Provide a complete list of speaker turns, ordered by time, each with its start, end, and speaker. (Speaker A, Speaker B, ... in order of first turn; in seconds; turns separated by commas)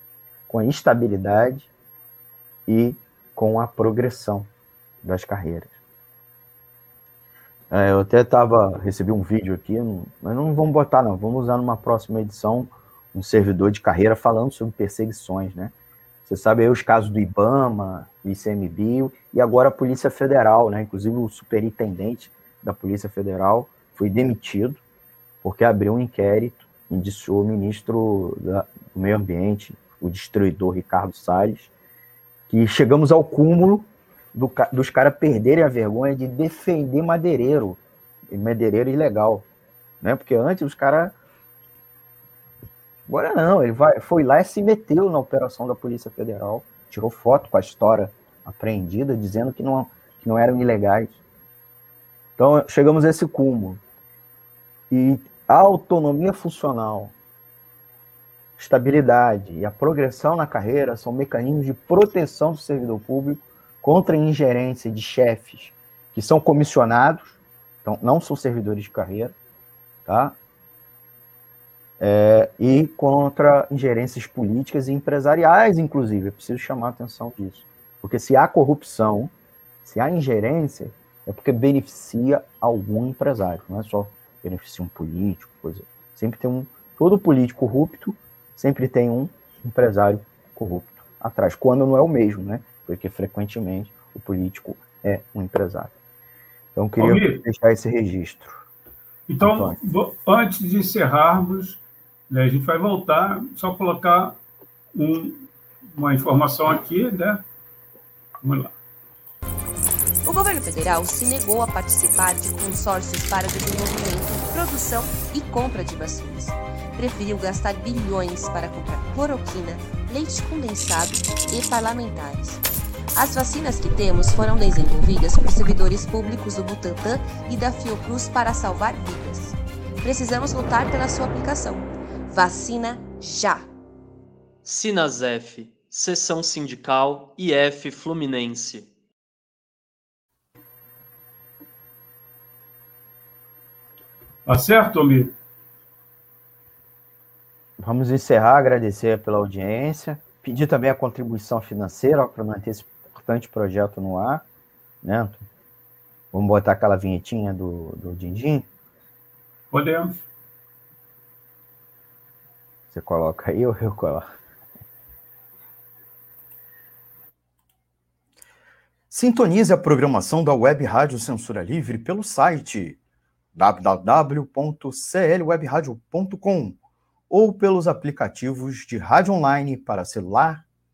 Speaker A: 0.5-1.7, Speaker A: 2.7-4.5, Speaker A: 5.0-5.8, Speaker A: 7.7-15.7, Speaker A: 16.2-24.8, Speaker A: 25.4-31.7, Speaker A: 32.5-39.5, Speaker A: 40.0-41.2, Speaker A: 43.1-51.2, Speaker A: 52.4-53.8, Speaker A: 54.9-57.1, Speaker A: 58.6-69.3, Speaker A: 70.1-70.4, Speaker A: 72.0-96.0, Speaker A: 96.7-98.7, Speaker B: 97.0-97.5, Speaker B: 99.3-104.4, Speaker A: 99.4-99.8, Speaker B: 105.0-107.4, Speaker B: 108.4-108.7, Speaker C: 110.2-122.6, Speaker C: 123.2-133.7, Speaker D: 134.6-138.9, Speaker B: 144.5-145.3, Speaker A: 147.8-154.4, Speaker A: 155.0-155.4, Speaker A: 156.3-158.7, Speaker B: 159.7-160.3, Speaker A: 162.9-164.3, Speaker A: 169.1-173.0, Speaker A: 173.6-176.8, Speaker A: 177.3-180.7